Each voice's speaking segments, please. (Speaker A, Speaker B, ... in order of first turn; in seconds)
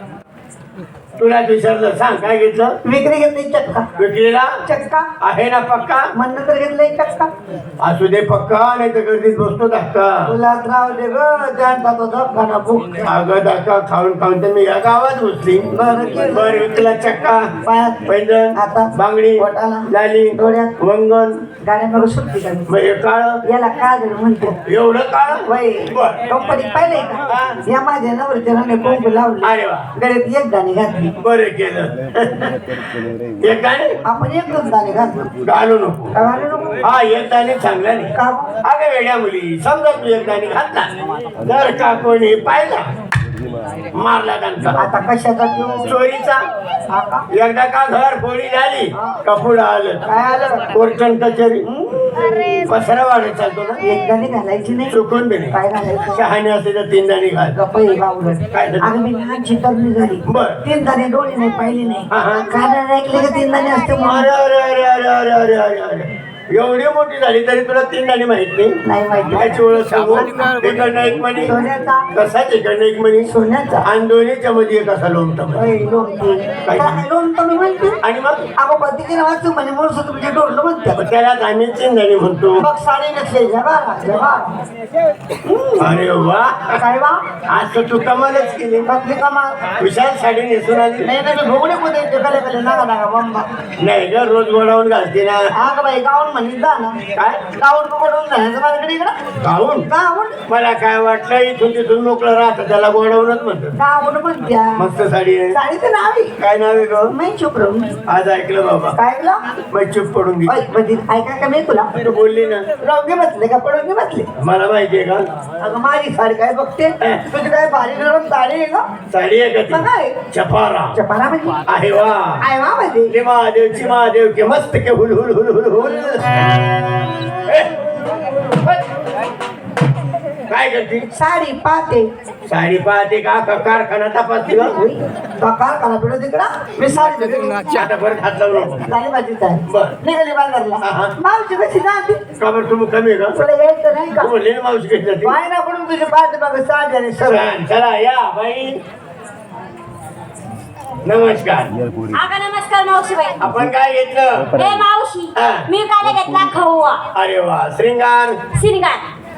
Speaker A: 1.2-2.8, 4.0-4.6, 5.2-6.1, 7.8-10.3, 13.0-15.7, 16.3-17.5, 18.1-21.5, 22.7-23.4, 24.6-26.2, 27.3-27.6, 29.4-29.9, 31.2-34.0, 35.4-36.1, 36.8-42.8, 43.9-44.8, 45.8-46.4, 47.3-50.0, 50.7-51.6, 52.7-53.8, 54.9-55.5, 56.1-57.5, 58.5-58.9, 60.2-60.6, 62.1-62.5, 64.0-71.6, 72.1-73.3, 73.8-75.7, 76.6-77.0, 78.0-78.5, 81.0-82.6, 85.8-86.8, 87.5-88.9, 89.8-91.1, 93.8-95.5, 97.1-97.4, 99.4-99.9, 100.5-103.8, 104.8-105.6, 106.4-107.1, 108.1-109.0, 109.7-110.5, 112.0-112.7, 114.4-115.2, 117.0-117.2, 119.1-121.0, 121.7-122.4, 123.1-126.2, 127.4-127.7, 130.5-131.1, 132.5-134.8, 137.6-138.8, 139.7-140.0, 140.8-141.1, 142.4-143.4, 144.2-145.3, 147.2-148.8, 151.0-151.7, 153.4-154.5, 155.3-155.7, 157.1-158.4
Speaker B: 2.8-3.9, 4.7-5.1, 6.1-7.3, 10.2-13.1, 15.7-16.6, 17.6-20.8, 21.6-22.7, 23.4-24.6, 25.4-31.1, 34.0-35.3, 36.1-36.8, 38.1-38.6, 44.7-45.8, 46.9-47.2, 48.9-49.2, 50.0-50.7, 51.6-52.6, 53.8-55.0, 55.5-56.2, 57.5-64.3, 68.8-70.3, 71.4-72.1, 73.2-73.9, 75.5-78.0, 78.6-81.0, 82.6-84.6, 85.4-86.0, 86.8-87.2, 88.8-89.6, 91.0-93.5, 95.5-97.0, 97.5-99.1, 99.9-100.4, 103.8-104.8, 105.5-106.3, 107.1-108.0, 108.9-109.4, 110.5-111.9, 112.8-114.3, 115.6-118.8, 119.7-120.2, 120.9-121.6, 122.4-123.1, 131.1-132.1, 134.7-137.6, 138.8-142.2, 143.3-144.3, 145.2-147.5
Speaker C: 152.1-153.4, 154.5-157.0, 158.5-159.1